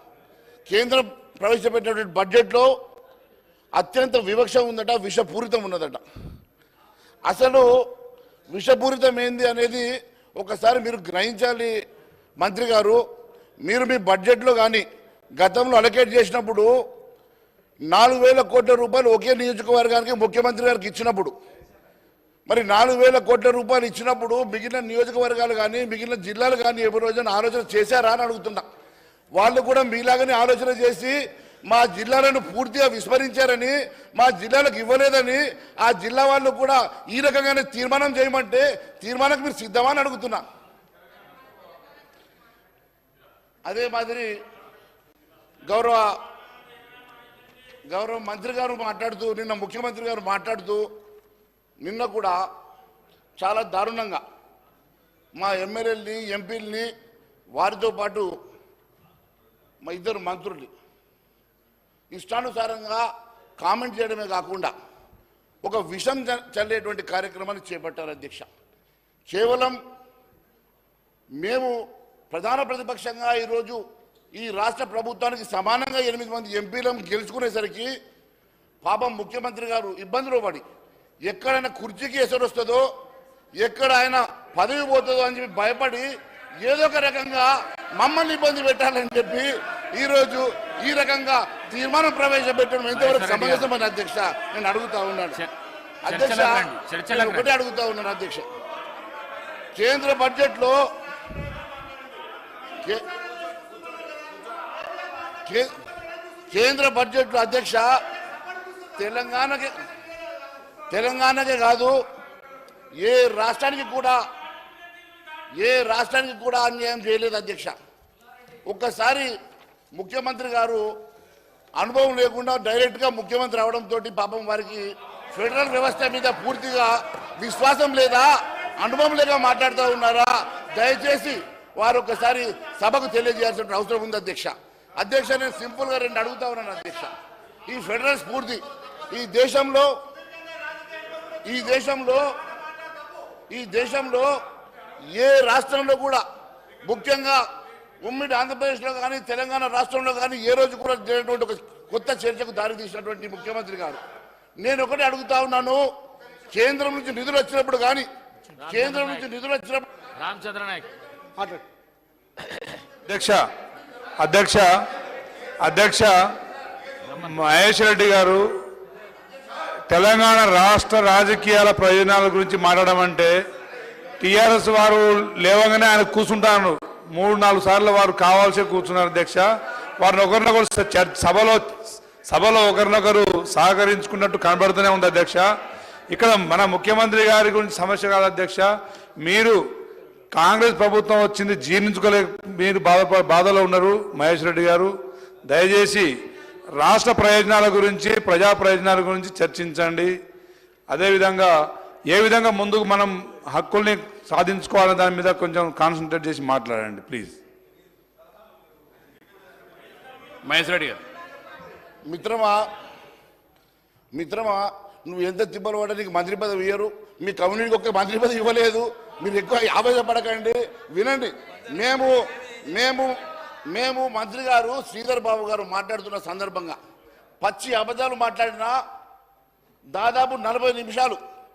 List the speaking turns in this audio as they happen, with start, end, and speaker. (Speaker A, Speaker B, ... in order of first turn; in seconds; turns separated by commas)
Speaker A: 0.7-2.7, Speaker A: 3.8-6.0, Speaker A: 7.3-7.7, Speaker A: 8.5-11.7, Speaker A: 12.4-13.0, Speaker A: 13.6-14.8, Speaker A: 15.4-16.7, Speaker A: 17.9-21.3, Speaker A: 22.5-28.6, Speaker A: 29.3-31.2, Speaker A: 31.7-40.4, Speaker A: 43.6-44.3, Speaker A: 45.7-46.1, Speaker A: 47.9-50.8, Speaker A: 51.8-52.4, Speaker A: 53.4-54.2, Speaker A: 55.4-56.9, Speaker A: 57.5-58.3, Speaker A: 59.8-60.7, Speaker A: 62.1-63.0, Speaker A: 63.6-64.7, Speaker A: 65.6-68.5, Speaker A: 69.3-69.8, Speaker A: 71.4-71.7, Speaker A: 72.3-73.8, Speaker A: 74.3-77.9, Speaker A: 78.8-80.6, Speaker A: 81.3-82.8, Speaker A: 83.6-86.1, Speaker A: 86.6-95.4, Speaker B: 92.9-93.7, Speaker A: 96.0-98.5, Speaker B: 96.0-97.5, Speaker A: 99.8-100.8, Speaker A: 106.5-107.9, Speaker A: 109.0-109.7, Speaker A: 110.9-112.0, Speaker A: 113.0-114.2, Speaker A: 115.6-117.8, Speaker A: 118.7-119.3, Speaker A: 119.9-120.8, Speaker A: 121.8-128.3, Speaker A: 128.8-137.1, Speaker A: 137.7-139.9, Speaker A: 141.5-142.2, Speaker A: 143.5-144.3, Speaker A: 145.1-146.2, Speaker A: 146.8-147.4, Speaker A: 148.0-154.0, Speaker A: 154.6-155.8, Speaker A: 156.5-158.1, Speaker B: 158.6-159.3, Speaker A: 158.7-159.9, Speaker B: 160.2-160.9, Speaker C: 163.1-163.4, Speaker C: 164.2-164.7, Speaker C: 165.6-166.1, Speaker C: 167.2-168.5, Speaker C: 169.9-173.3, Speaker C: 174.2-179.4, Speaker C: 180.0-185.4, Speaker C: 186.1-188.7, Speaker C: 189.2-189.6, Speaker C: 190.3-194.9, Speaker C: 195.5-196.1, Speaker C: 196.8-200.1, Speaker C: 200.9-201.5, Speaker C: 202.1-207.3, Speaker B: 210.4-211.0, Speaker A: 212.1-212.6, Speaker A: 214.1-222.2, Speaker A: 222.7-223.1, Speaker A: 223.7-226.8, Speaker A: 227.4-228.8, Speaker A: 229.9-231.2